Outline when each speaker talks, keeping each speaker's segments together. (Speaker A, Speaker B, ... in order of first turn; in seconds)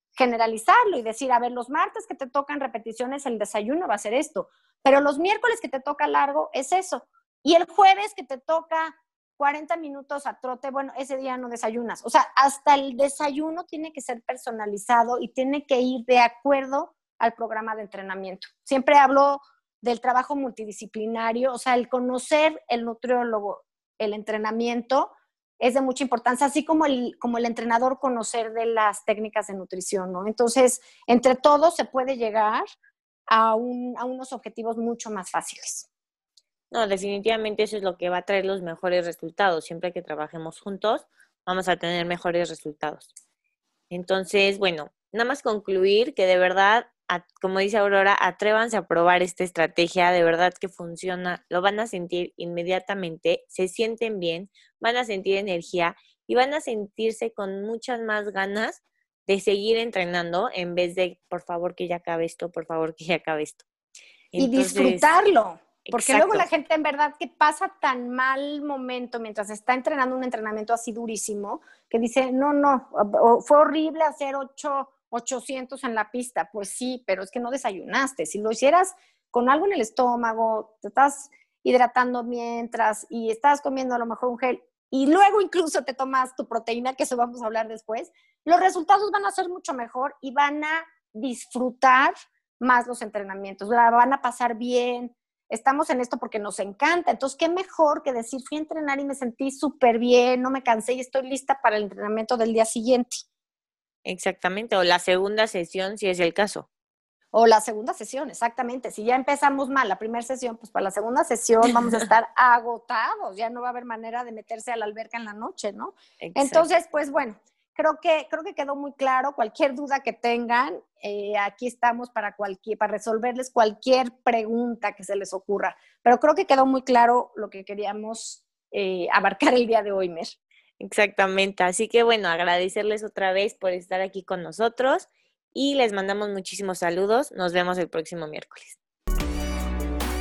Speaker A: 0.2-32.6, 33.3-35.9, 64.4-103.2, 107.3-130.4
Speaker B: 36.7-43.1, 43.9-63.6, 64.3-65.1, 65.8-66.5, 104.0-106.7, 111.6-112.1, 116.2-116.7, 130.8-138.8